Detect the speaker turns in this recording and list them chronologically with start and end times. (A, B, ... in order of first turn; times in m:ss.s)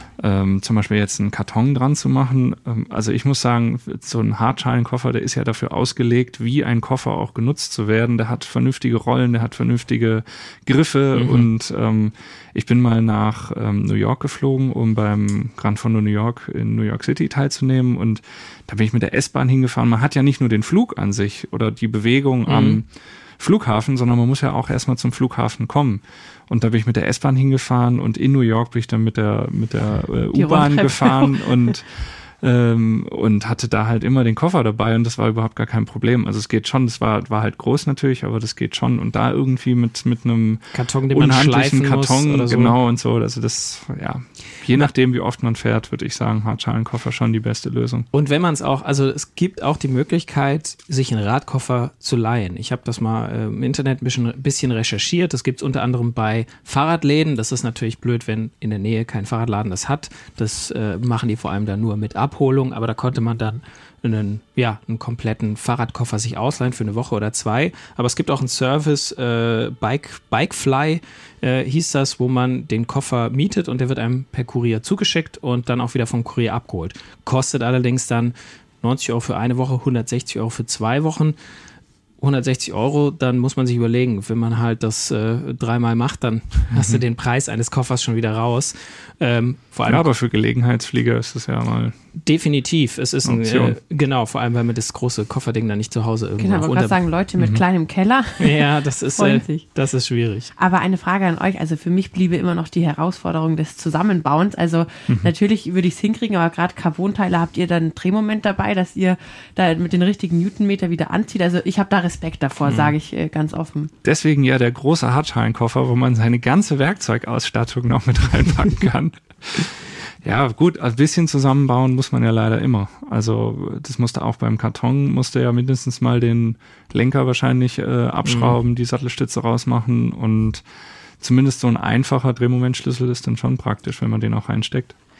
0:00.2-0:22.9 A
0:11.1-0:11.5 B
0:22.5-0:22.8 B
0:23.4-0:48.1 A
0:30.3-0:31.5 C
0:40.7-0:42.7 B
0:48.1-1:21.4 B
1:22.2-1:30.0 B
1:26.7-1:27.0 A
1:29.8-1:32.0 A
1:32.1-1:37.0 B
1:33.2-1:33.8 A
1:36.4-1:39.6 C
1:38.4-1:40.5 B
1:40.6-1:53.9 C
1:45.1-1:45.3 A
1:52.6-1:52.9 B
1:54.0-2:10.6 A
2:08.2-2:08.6 B
2:11.2-2:14.9 A